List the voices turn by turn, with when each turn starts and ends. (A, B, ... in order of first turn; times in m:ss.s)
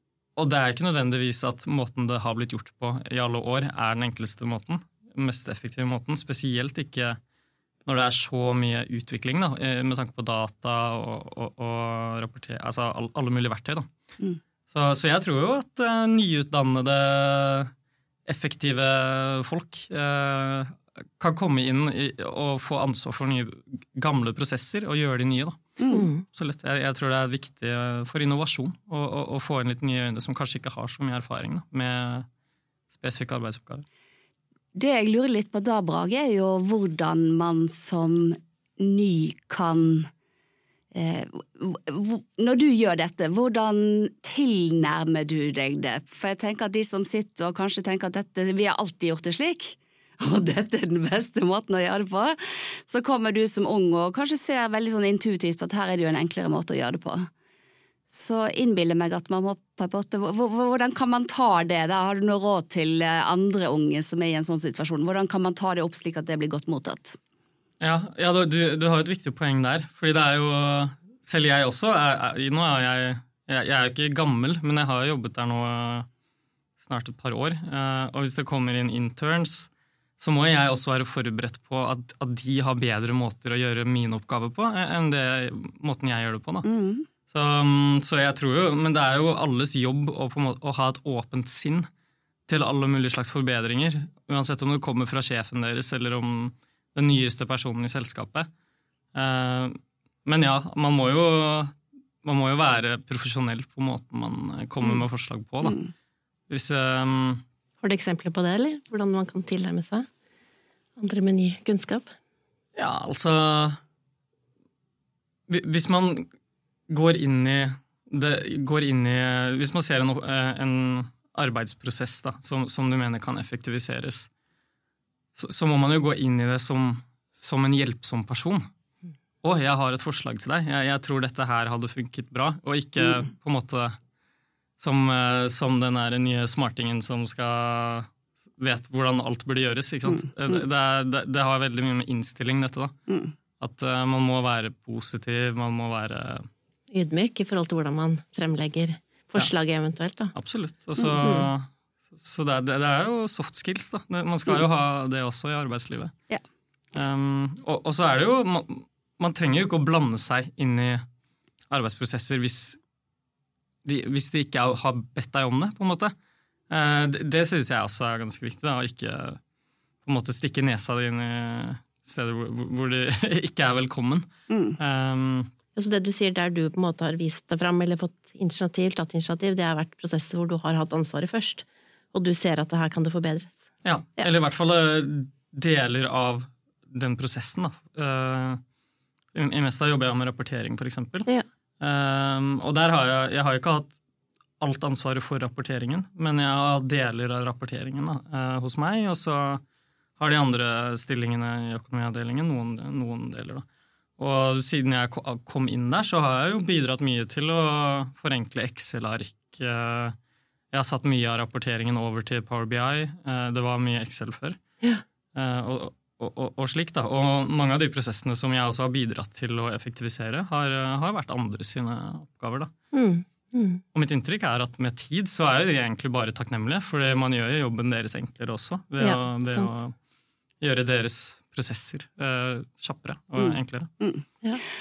0:00.4-0:07.2 A
0:07.8-0:13.9 A
0:14.7-0:17.7 A
0:18.2-0:32.3 A
0:25.8-0:26.0 B
0:25.9-0:26.2 C
0:32.9-0:33.8 A
0:34.7-0:40.1 B
0:40.9-0:57.3 B
0:58.1-1:07.2 B
1:07.8-1:16.1 A
1:16.8-1:26.7 A
1:26.6-1:27.1 B
1:27.3-1:31.9 A
1:32.5-1:38.5 A
1:39.1-1:45.8 A
1:46.5-1:47.4 A
1:47.8-1:50.1 C
1:51.0-1:52.1 C
1:52.8-1:53.8 A
1:55.5-1:56.3 A
1:56.9-2:04.3 A
2:05.4-2:08.7 A
2:09.4-2:14.0 A
2:14.8-2:22.9 A
2:20.0-2:20.6 B
2:23.1-2:23.3 B
2:23.6-2:26.5 A
2:26.9-2:30.3 C
2:30.3-2:36.1 A
2:31.2-2:31.5 C
2:36.9-2:41.0 A
2:41.7-2:42.8 A
2:43.8-2:46.1 A
2:46.7-2:49.4 A
2:50.0-2:54.3 A
2:54.5-2:54.8 B
2:54.8-2:55.5 A
2:55.8-3:03.6 C
3:03.8-3:08.6 A
3:09.3-3:11.3 A
3:11.8-3:14.0 A
3:14.6-3:19.6 A
3:20.2-3:23.6 A
3:24.2-3:30.2 A
3:30.7-3:34.6 A
3:35.3-3:42.7 A
3:42.9-3:43.8 C
3:43.9-3:49.9 A
3:49.0-3:49.7 C
3:50.6-3:53.9 A
3:53.4-3:54.2 B